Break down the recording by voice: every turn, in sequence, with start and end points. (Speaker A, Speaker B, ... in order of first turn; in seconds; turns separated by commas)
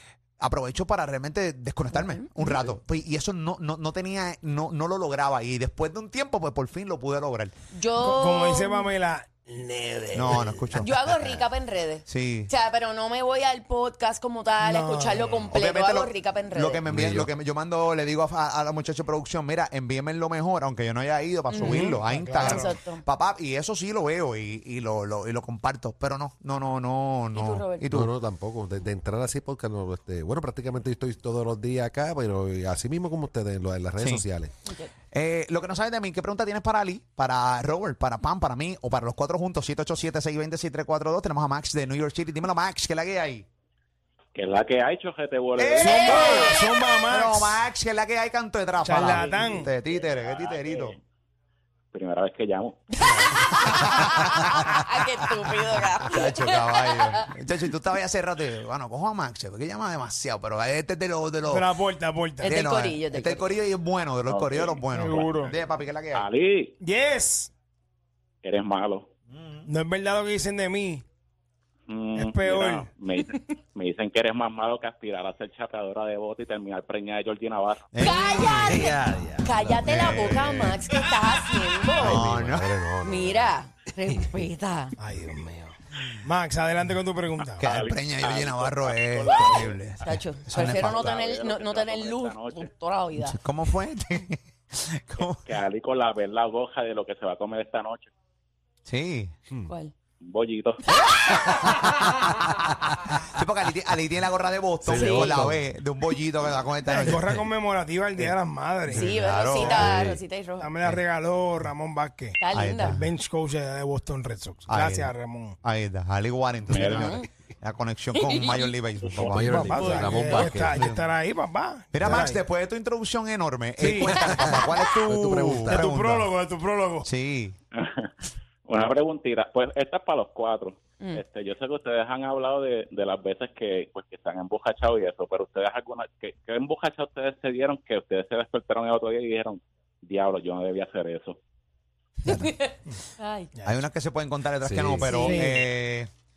Speaker A: 0.4-7.5, Speaker B: 1.9-2.2, Speaker B: 7.7-8.9, Speaker C: 8.0-11.0, Speaker A: 10.1-10.9, Speaker B: 10.8-16.9, Speaker A: 12.1-12.5, Speaker C: 14.6-15.5, Speaker A: 15.5-28.1, Speaker D: 16.9-17.3, Speaker B: 21.5-21.9, Speaker C: 21.6-22.7, Speaker B: 22.4-23.0, Speaker B: 27.3-27.9, Speaker D: 27.9-34.5, Speaker A: 34.0-34.2, Speaker B: 34.6-34.9, Speaker A: 35.1-43.5, Speaker E: 44.3-46.2, Speaker A: 45.6-46.5, Speaker C: 45.8-47.7, Speaker B: 45.8-46.8, Speaker A: 47.1-51.0, Speaker C: 48.8-49.7, Speaker E: 50.1-51.0, Speaker E: 51.9-52.8, Speaker B: 53.0-57.3, Speaker A: 53.0-54.8, Speaker A: 56.0-61.6, Speaker C: 61.5-62.5, Speaker B: 62.4-63.5, Speaker A: 62.4-66.3, Speaker E: 64.3-64.8, Speaker C: 64.9-65.5, Speaker E: 66.1-66.7, Speaker C: 66.8-67.5, Speaker E: 68.4-69.0, Speaker A: 69.3-69.7, Speaker C: 69.7-71.0, Speaker E: 71.9-77.8, Speaker C: 72.1-72.9, Speaker A: 77.9-78.9, Speaker B: 78.0-82.2, Speaker D: 78.5-80.5, Speaker A: 79.8-80.8, Speaker D: 82.0-83.6, Speaker A: 82.0-82.7, Speaker B: 83.0-84.9, Speaker C: 85.0-87.6, Speaker E: 87.6-89.8, Speaker A: 87.6-91.1, Speaker B: 90.0-93.4, Speaker E: 90.5-92.7, Speaker A: 93.2-95.4, Speaker E: 95.4-98.1, Speaker A: 98.8-99.3, Speaker E: 100.2-100.8, Speaker A: 100.9-107.4, Speaker B: 101.0-101.5, Speaker D: 104.8-105.6, Speaker B: 104.9-105.4, Speaker C: 106.8-109.8, Speaker A: 108.9-109.9, Speaker B: 108.9-110.7, Speaker D: 109.7-110.2, Speaker C: 110.6-115.6, Speaker B: 112.4-113.0, Speaker A: 112.5-113.1, Speaker A: 114.7-121.0, Speaker E: 116.7-117.2, Speaker B: 116.8-117.3, Speaker B: 118.2-118.7, Speaker E: 119.0-119.7, Speaker D: 119.2-120.9, Speaker C: 119.6-122.4, Speaker A: 121.9-126.2, Speaker D: 123.8-126.0, Speaker C: 123.8-124.2, Speaker C: 125.7-127.1, Speaker A: 127.0-127.5, Speaker E: 127.8-128.1, Speaker E: 128.7-141.4, Speaker B: 142.2-143.5, Speaker C: 143.5-143.8, Speaker A: 143.6-146.1, Speaker D: 144.6-145.2, Speaker B: 145.0-145.4, Speaker C: 145.2-145.7